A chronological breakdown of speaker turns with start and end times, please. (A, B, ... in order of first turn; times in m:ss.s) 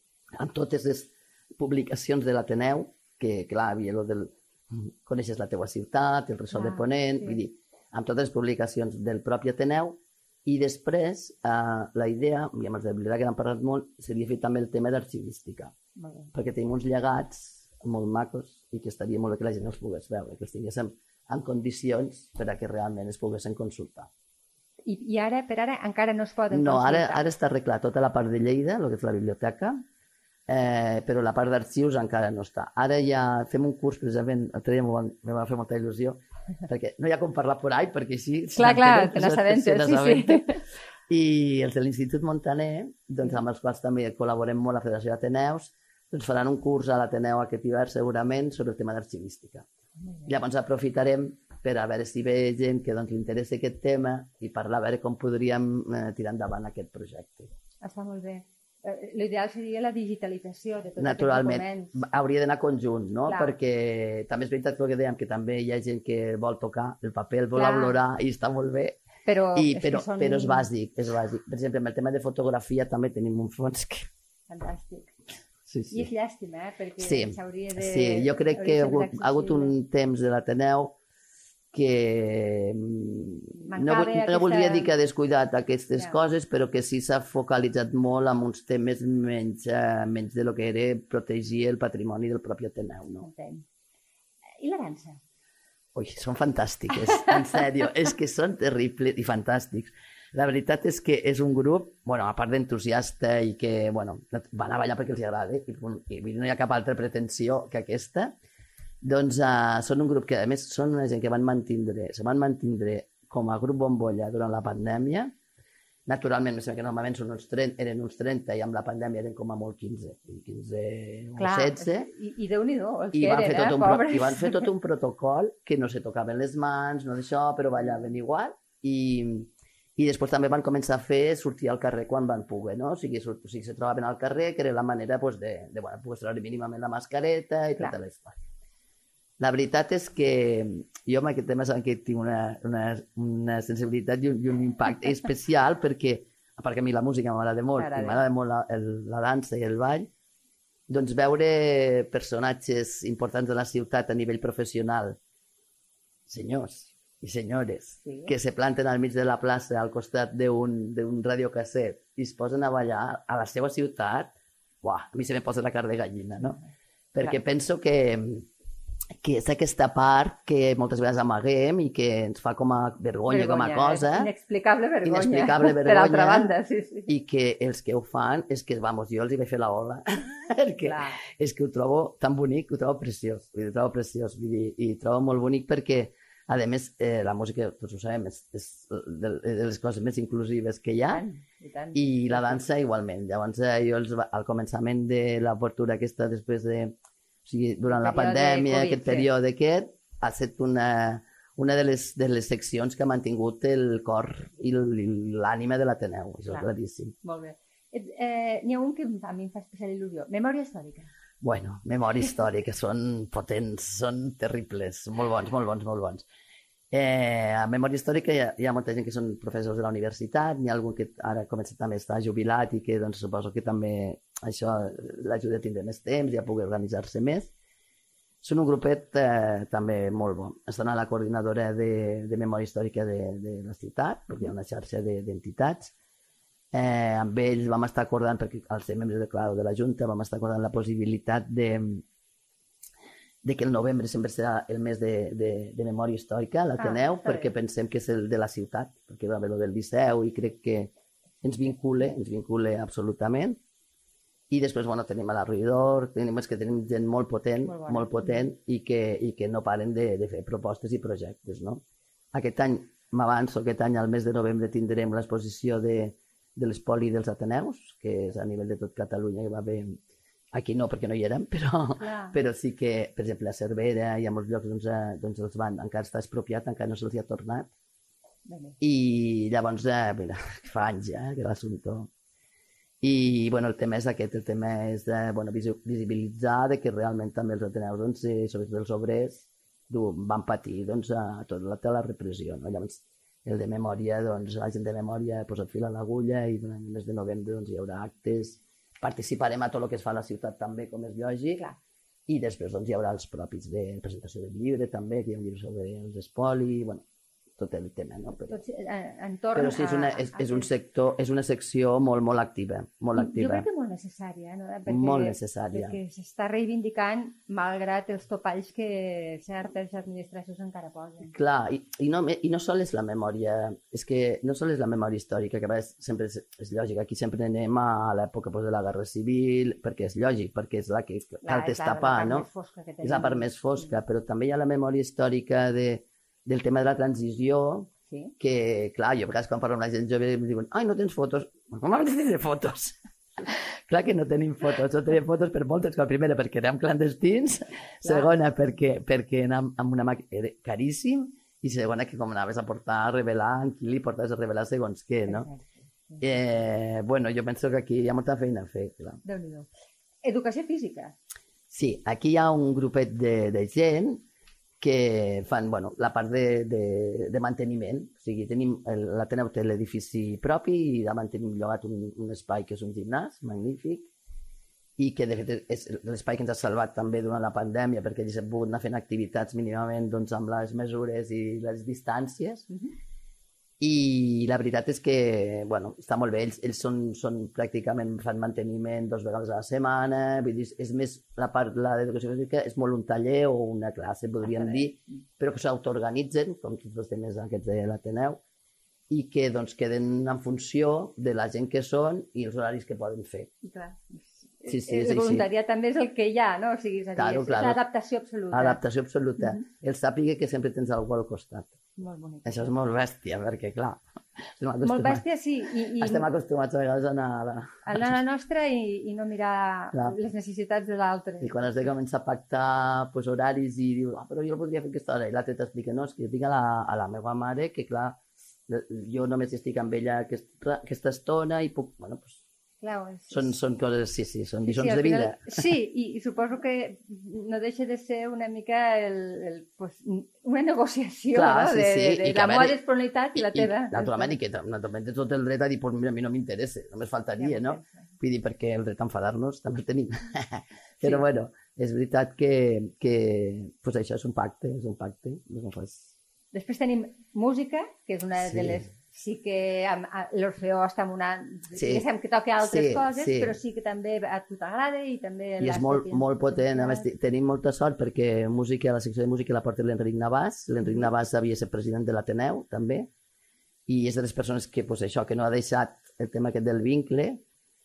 0:00.4-0:15.8 A
0:06.5-0:07.4 B
0:16.0-0:16.3 B
0:16.3-0:24.1 A
0:24.9-0:27.2 B
0:26.5-0:29.8 A
0:30.5-0:40.5 A
0:38.6-0:40.6 B
0:41.1-0:49.7 A
0:50.0-0:50.3 B
0:50.3-0:57.5 A
0:57.8-1:02.0 B
1:01.0-1:09.0 A
1:03.3-1:03.5 B
1:07.6-1:08.0 B
1:09.3-1:10.7 B
1:09.5-1:14.1 A
1:14.5-1:15.1 B
1:15.7-1:16.1 A
1:15.9-1:19.7 B
1:17.0-1:21.0 A
1:21.7-1:33.3 A
1:23.7-1:24.9 B
1:33.2-1:33.6 B
1:34.6-1:35.2 B
1:36.0-1:48.4 A
1:49.0-1:55.4 A
1:56.1-2:02.1 A
2:01.4-2:04.7 B
2:03.1-2:18.4 A
2:19.4-2:30.1 A
2:27.8-2:28.2 B
2:30.9-2:35.2 A
2:36.3-2:46.6 A
2:38.0-2:38.3 B
2:47.1-2:48.5 A
2:49.2-2:54.3 A
2:53.3-2:57.1 B
2:55.0-2:56.5 A
2:57.1-3:11.2 A
3:00.8-3:01.2 B
3:11.1-3:12.6 B
3:11.9-3:27.2 A
3:17.9-3:19.3 B
3:27.2-3:31.1 B
3:31.4-3:36.2 A
3:36.9-3:47.5 A
3:48.4-3:55.9 A
3:56.7-4:02.0 A
4:03.4-4:10.9 A
4:06.8-4:07.5 B
4:11.4-4:13.6 A
4:14.5-4:30.0 A
4:17.6-4:18.4 B
4:30.5-4:37.7 A
4:32.0-4:32.4 B
4:38.5-4:38.8 B
4:38.8-4:42.1 A
4:43.0-5:01.6 A
5:02.3-5:07.0 A
5:07.6-5:08.6 A
5:08.5-5:10.7 B
5:09.5-5:13.7 A
5:13.2-5:21.3 B
5:14.9-5:16.0 A
5:21.3-5:32.5 A
5:31.4-5:33.5 B
5:33.0-5:55.5 A
5:48.0-5:48.3 B
5:55.3-5:56.2 B
5:56.2-5:59.2 A
5:59.2-5:59.7 B
6:00.2-6:01.2 B
6:01.7-6:04.2 A
6:04.8-6:14.1 A
6:15.0-6:22.7 A
6:23.8-6:38.4 A
6:34.4-6:34.8 B
6:39.1-6:43.6 A
6:43.6-6:48.8 B
6:44.7-6:45.5 A
6:47.2-6:47.8 A
6:48.5-6:51.8 A
6:52.0-6:52.7 B
6:52.4-6:55.2 A
6:54.8-6:56.3 B
6:56.0-6:58.2 A
6:57.8-7:01.9 B
6:59.9-7:00.2 A
7:01.4-7:12.4 A
7:12.8-7:13.5 B
7:13.3-7:15.7 A
7:14.6-7:24.4 B
7:21.3-7:22.8 A
7:23.4-7:36.1 A
7:27.4-7:28.1 B
7:36.5-7:47.1 B
7:38.4-7:38.9 A
7:41.8-7:42.0 A
7:42.6-7:43.6 A
7:45.6-7:53.1 A
7:53.9-7:57.4 A